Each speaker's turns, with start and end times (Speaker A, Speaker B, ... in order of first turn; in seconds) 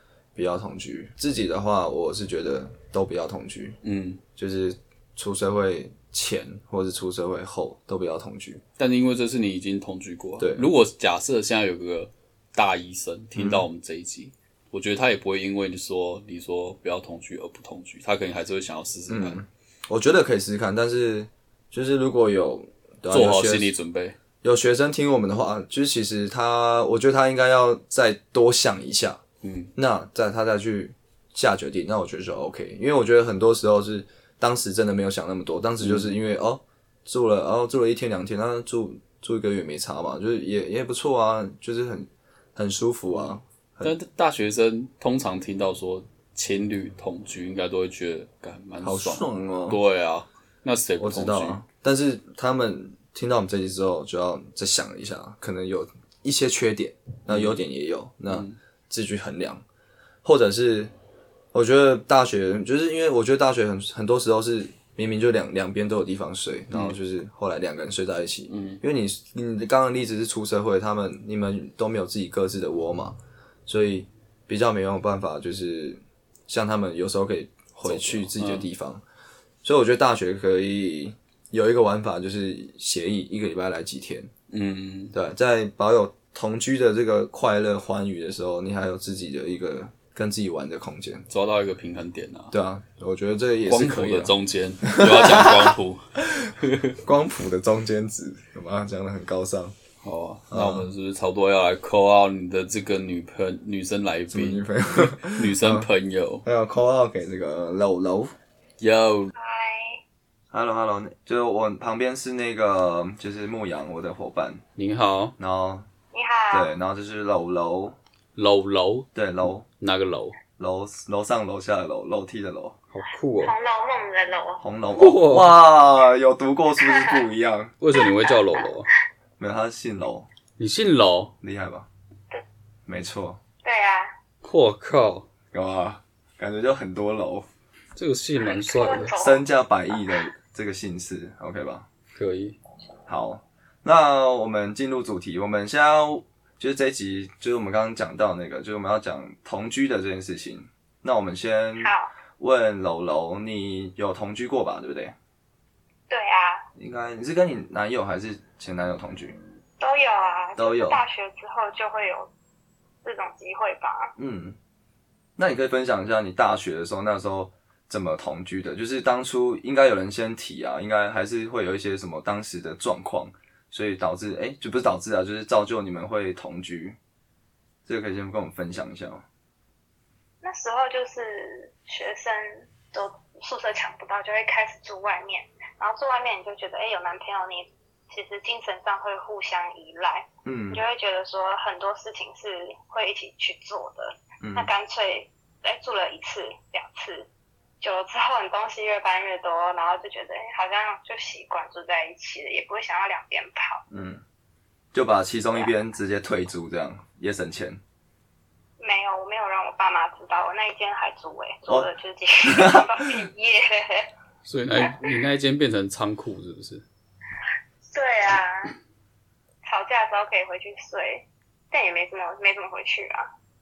Speaker A: 0.3-3.8, 4.4-8.6, 10.4-10.7, 13.3-13.7, 19.1-23.7, 24.4-29.2, 29.8-43.9, 48.8-49.8, 51.0-59.6, 60.2-60.9, 61.5-79.0, 79.6-84.3, 85.1-91.3, 92.5-95.8, 97.0-99.8, 100.5-100.9, 104.3-105.9, 106.5-108.3, 110.5-114.6, 115.4-115.9, 116.5-118.0, 119.2-119.7, 120.6-122.8, 124.6-127.8, 129.4-130.3, 131.4-131.9, 132.9-133.4, 135.5-137.5, 139.1-141.9, 143.1-155.2, 156.8-159.4, 160.6-161.0, 164.2-164.6, 165.4-177.0, 177.9-179.2, 190.4-190.8, 194.4-194.7, 203.9-204.2, 204.9-207.8, 212.4-213.1
Speaker B: 3.8-4.2, 8.8-19.4, 23.1-24.2, 29.4-29.7, 35.8-36.1, 43.8-51.6, 57.3-57.6, 58.3-58.6, 66.7-67.0, 68.5-68.8, 77.8-78.7, 84.5-85.2, 91.3-92.5, 93.7-97.0, 100.0-106.5, 108.8-109.3, 114.8-115.4, 118.4-119.1, 119.8-120.4, 122.9-123.5, 124.9-125.6, 127.8-128.9, 130.6-131.3, 134.4-135.3, 138.0-139.1, 142.2-142.6, 214.4-216.9
Speaker C: 109.3-110.0, 116.1-116.7, 123.4-124.6, 126.8-127.2, 128.0-128.7, 133.6-134.2, 138.4-139.5, 151.8-152.1, 156.1-156.7, 159.8-162.3, 163.0-164.1, 180.4-197.3, 197.8-203.8, 208.8-214.1, 214.8-215.1, 217.9-218.8, 219.7-223.3